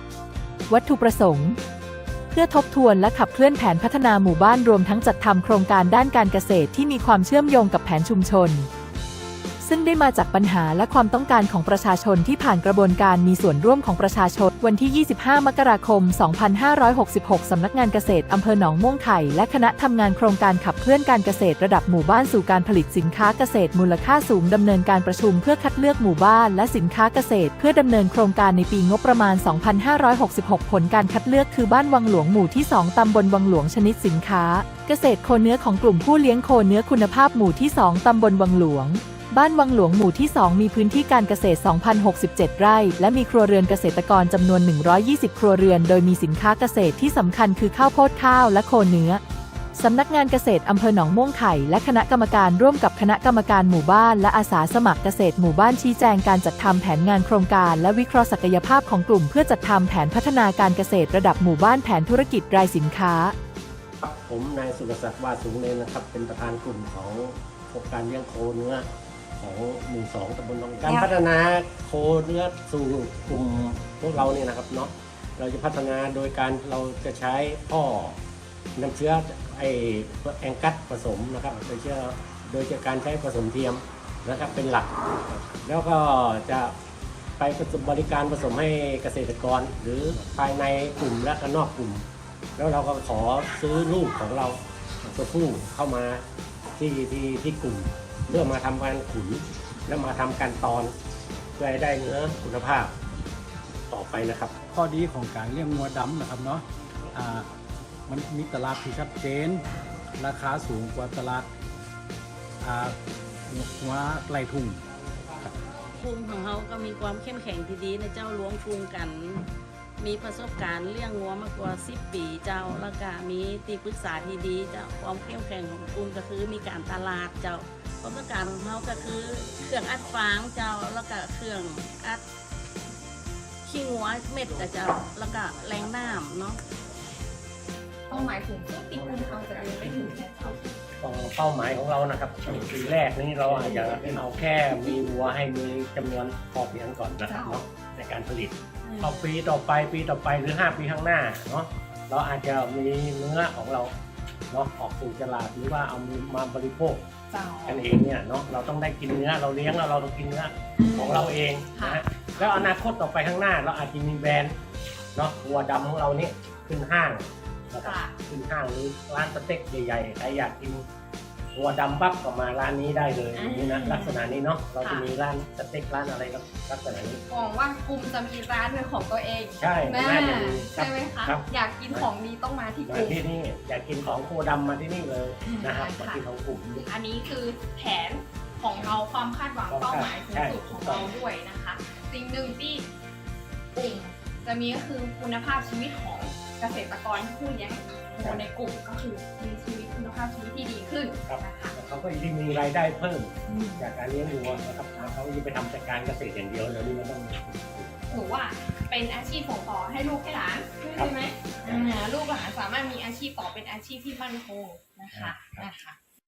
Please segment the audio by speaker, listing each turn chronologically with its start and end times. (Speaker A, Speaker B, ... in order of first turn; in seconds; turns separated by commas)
Speaker A: 0.7-1.6, Speaker A: 2.3-8.7, Speaker A: 9.6-49.2, Speaker A: 49.8-63.3, Speaker B: 64.0-68.9, Speaker B: 69.4-78.2, Speaker B: 78.8-86.8, Speaker B: 87.4-92.0, Speaker B: 92.5-94.6, Speaker B: 95.1-96.2, Speaker B: 96.8-100.9, Speaker B: 101.6-102.9, Speaker B: 103.9-104.5, Speaker C: 104.7-107.5, Speaker C: 108.1-111.5, Speaker C: 112.6-114.8, Speaker D: 116.0-119.5, Speaker D: 120.0-132.2, Speaker D: 133.6-136.6, Speaker E: 138.1-140.8, Speaker B: 141.0-153.9, Speaker E: 143.7-144.1, Speaker E: 147.3-147.6, Speaker E: 148.8-149.1, Speaker B: 154.5-157.0, Speaker E: 157.3-157.8, Speaker B: 157.6-164.6, Speaker E: 160.8-162.0, Speaker B: 165.1-170.8, Speaker E: 167.8-168.1, Speaker B: 171.5-177.2, Speaker E: 173.3-174.2, Speaker E: 177.3-183.2, Speaker B: 179.6-182.1, Speaker B: 182.9-186.8, Speaker E: 185.4-186.2, Speaker E: 186.8-192.9, Speaker B: 189.7-191.1, Speaker E: 193.7-201.7, Speaker B: 198.2-198.4, Speaker B: 201.2-208.2, Speaker E: 203.5-203.8, Speaker E: 208.1-215.9, Speaker B: 211.6-211.9, Speaker B: 215.1-215.7